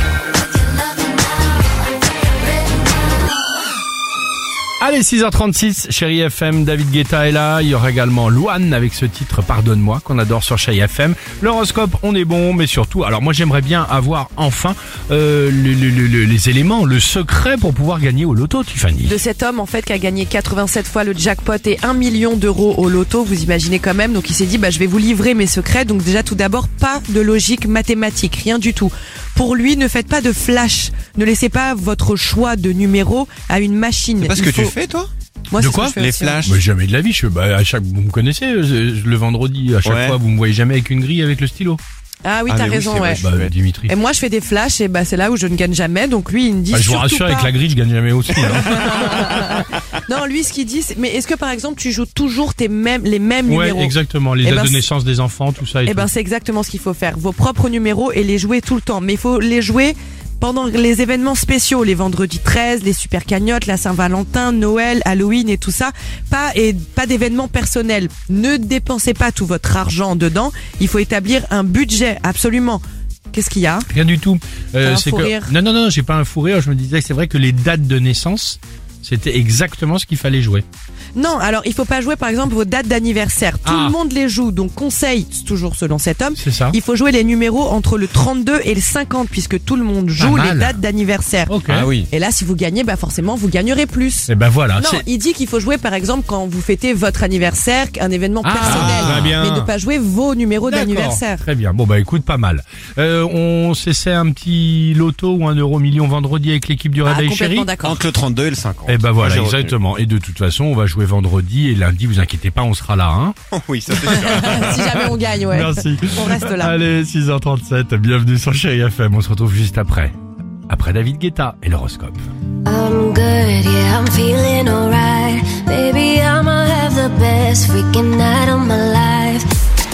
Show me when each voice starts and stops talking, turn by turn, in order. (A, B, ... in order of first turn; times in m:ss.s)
0:04.8-0:19.2 A
0:19.0-0:34.7 B
0:34.2-0:36.6 C
0:35.5-0:36.5 B
0:36.4-0:41.8 A
0:39.8-0:40.2 C
0:42.2-0:43.3 B
0:42.5-0:43.5 C
0:43.2-0:43.9 A
0:43.9-0:47.6 B
0:46.7-0:49.3 A
0:48.5-0:54.9 B
0:53.5-0:56.1 A
0:55.8-1:13.9 B
1:13.9-1:20.6 A
1:14.8-1:15.5 B
1:21.2-1:41.4 B
1:23.6-1:24.0 A
1:26.4-1:26.8 A
1:30.2-1:30.8 A
1:31.5-1:31.9 A
1:31.6-1:32.1 C
1:34.3-1:35.0 A
1:38.4-1:39.7 A
1:38.6-1:39.3 C
1:40.6-1:47.8 A
1:47.0-1:48.0 B
1:47.8-1:49.8 C
1:48.8-1:53.4 A
1:53.5-1:55.1 C
1:54.1-1:56.8 B
1:54.4-1:54.8 A
1:55.4-2:00.1 A
2:00.7-2:02.2 A
2:02.6-2:09.5 D